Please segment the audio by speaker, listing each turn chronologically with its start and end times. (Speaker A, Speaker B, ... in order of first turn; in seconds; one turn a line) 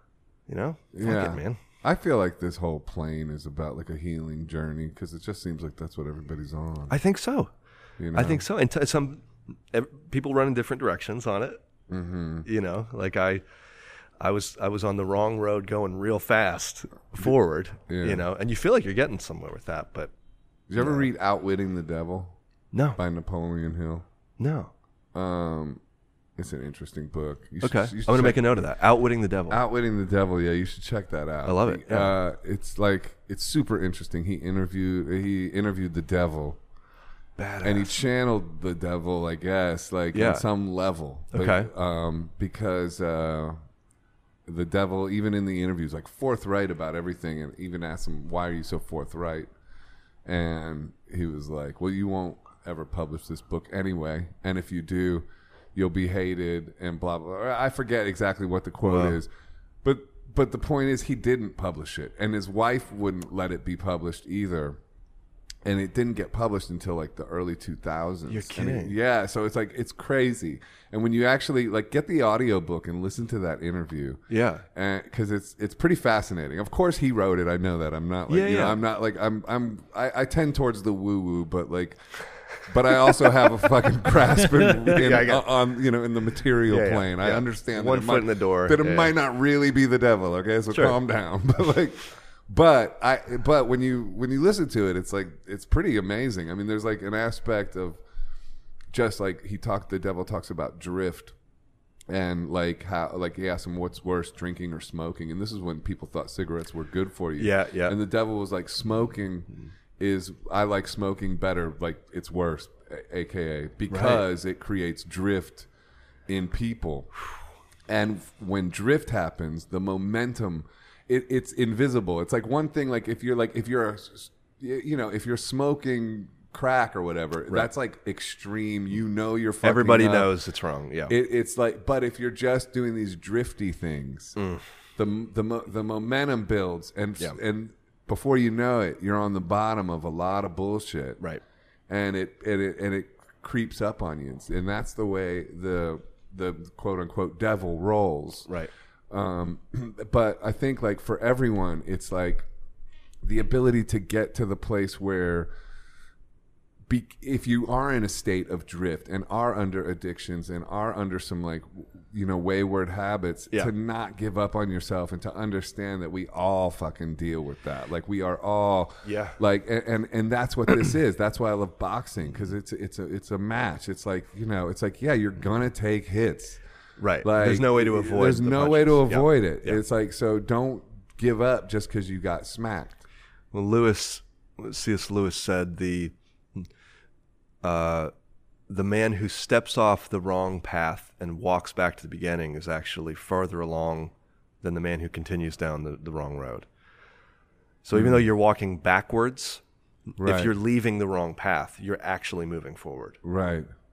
Speaker A: 0.5-1.6
Speaker B: 0.9-6.9
Speaker A: 6.9-7.5
Speaker B: 8.0-8.4
Speaker A: 8.1-11.6
Speaker B: 11.9-12.5
Speaker A: 12.4-13.4
Speaker A: 14.2-20.1
Speaker B: 17.9-18.2
Speaker B: 20.7-22.4
Speaker A: 20.8-21.1
Speaker A: 22.7-23.0
Speaker B: 22.9-24.0
Speaker A: 24.4-24.7
Speaker B: 25.1-25.8
Speaker B: 26.4-28.7
Speaker A: 27.6-29.6
Speaker B: 29.5-36.6
Speaker A: 31.4-32.1
Speaker A: 37.4-38.0
Speaker B: 37.6-43.6
Speaker A: 40.1-40.5
Speaker A: 41.3-41.7
Speaker B: 44.5-49.5
Speaker B: 50.2-59.3
Speaker A: 58.8-59.2
Speaker B: 59.8-64.8
Speaker B: 65.6-74.2
Speaker A: 68.3-68.9
Speaker A: 74.3-74.6
Speaker B: 74.7-82.0
Speaker A: 78.3-78.8
Speaker B: 82.6-98.0
Speaker A: 84.9-85.5
Speaker A: 86.7-89.1
Speaker A: 90.7-91.0
Speaker B: 98.9-101.3
Speaker B: 102.1-115.7
Speaker A: 107.4-108.0
Speaker A: 113.9-114.2
Speaker B: 116.3-117.1
Speaker B: 117.9-130.3
Speaker A: 129.6-131.1
Speaker B: 131.1-134.4
Speaker A: 134.4-134.6
Speaker B: 135.0-141.2
Speaker B: 141.9-148.5
Speaker B: 149.1-152.5
Speaker B: 153.2-155.5
Speaker B: 156.9-176.6
Speaker A: 169.0-169.4
Speaker A: 177.0-179.8
Speaker B: 177.2-183.0
Speaker A: 183.5-186.7
Speaker A: 187.6-188.1
Speaker A: 188.7-196.7
Speaker A: 197.8-199.6
Speaker B: 197.9-198.3
Speaker B: 200.2-200.5
Speaker A: 200.2-203.2
Speaker B: 203.2-203.7